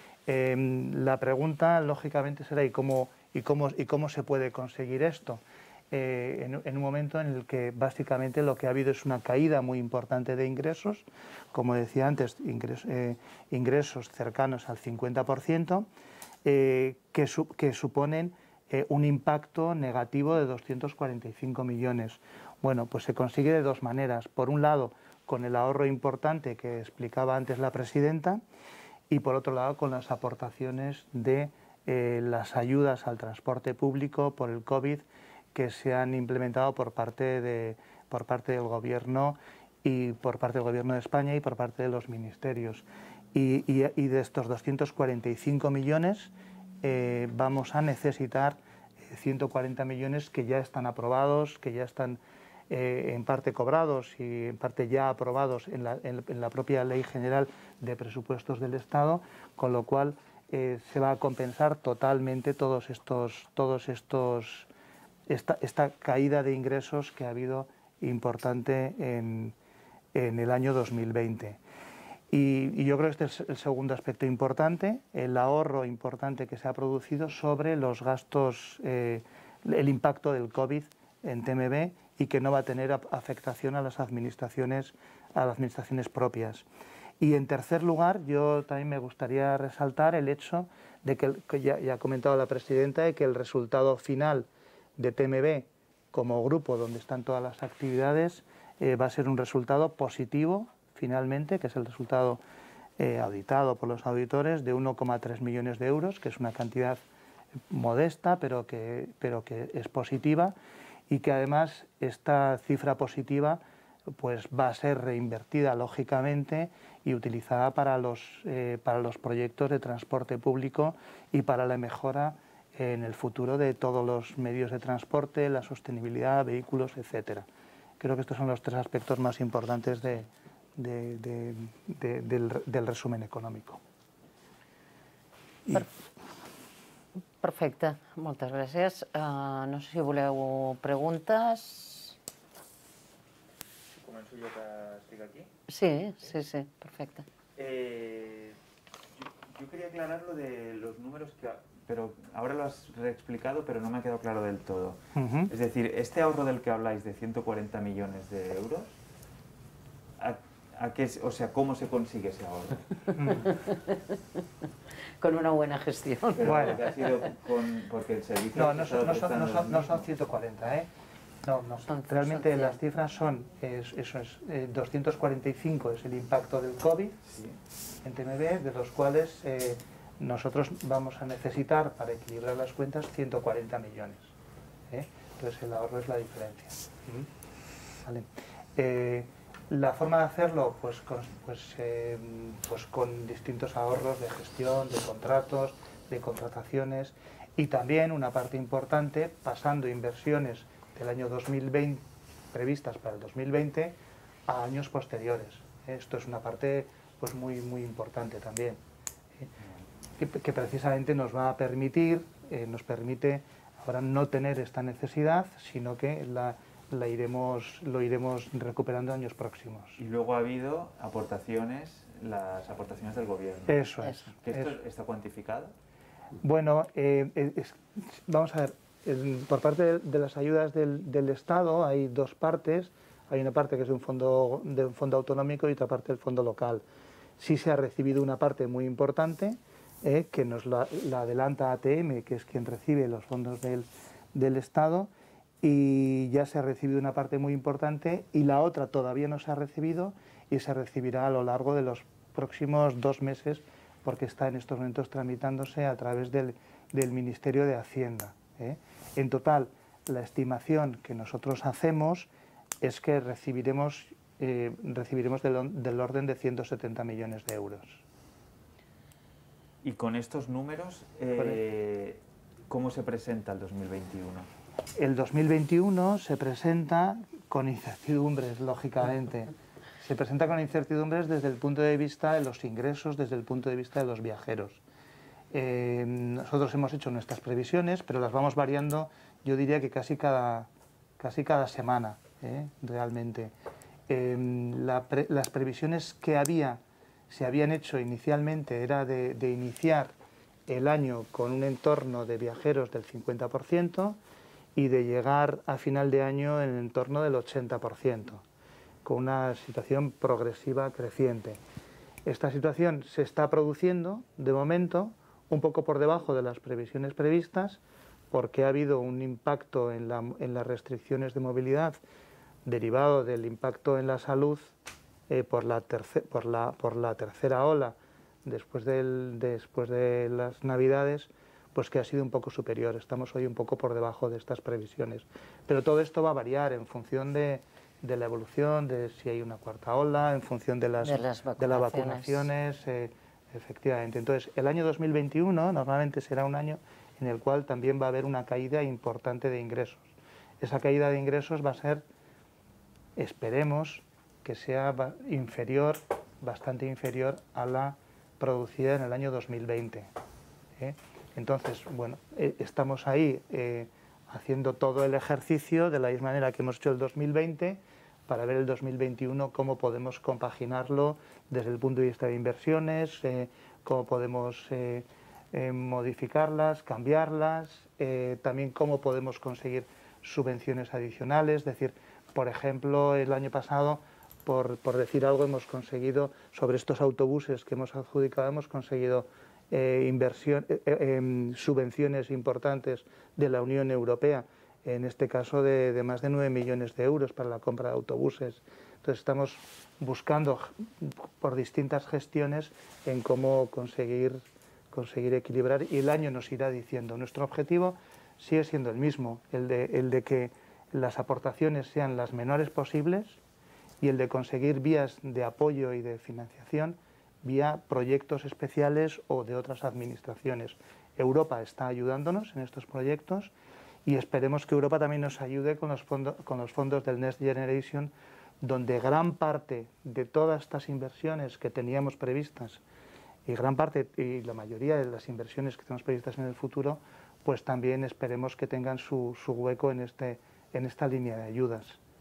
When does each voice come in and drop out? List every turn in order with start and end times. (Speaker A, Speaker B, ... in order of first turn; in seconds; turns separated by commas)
Speaker A: 0.3-15.9, Speaker A: 16.4-28.4, Speaker A: 29.1-64.7, Speaker A: 65.3-69.5, Speaker A: 70.1-71.6, Speaker A: 72.3-86.7, Speaker A: 87.2-102.4, Speaker A: 103.0-107.0, Speaker A: 107.7-110.5, Speaker A: 111.1-113.6, Speaker A: 114.2-127.5, Speaker A: 128.0-133.8, Speaker B: 137.4-142.2, Speaker C: 143.9-145.5, Speaker B: 145.7-147.3, Speaker C: 147.6-148.6, Speaker C: 149.2-159.0, Speaker A: 155.2-155.5, Speaker C: 160.2-162.9, Speaker A: 163.2-163.5, Speaker B: 163.3-164.0, Speaker B: 165.2-167.1, Speaker C: 166.4-170.0, Speaker A: 166.4-166.8, Speaker A: 168.5-170.9, Speaker A: 171.4-177.2, Speaker B: 171.9-172.8, Speaker C: 177.3-177.6, Speaker A: 178.0-184.3, Speaker A: 184.9-187.3, Speaker A: 188.1-203.9, Speaker A: 204.5-208.8, Speaker A: 210.2-220.0, Speaker C: 220.0-225.7, Speaker A: 223.7-224.7, Speaker A: 226.4-236.8, Speaker A: 237.4-245.1, Speaker A: 245.6-262.3, Speaker A: 262.8-268.0, Speaker C: 269.8-274.5, Speaker A: 275.0-284.8, Speaker A: 285.5-293.5, Speaker A: 294.1-300.1, Speaker A: 300.7-304.2, Speaker A: 304.8-308.4, Speaker A: 309.0-311.6, Speaker A: 312.2-322.0, Speaker A: 322.6-324.7, Speaker A: 325.3-352.0, Speaker B: 341.0-342.5, Speaker A: 353.2-360.1, Speaker A: 360.8-413.4, Speaker A: 414.0-423.5, Speaker A: 424.1-432.8, Speaker A: 433.5-442.0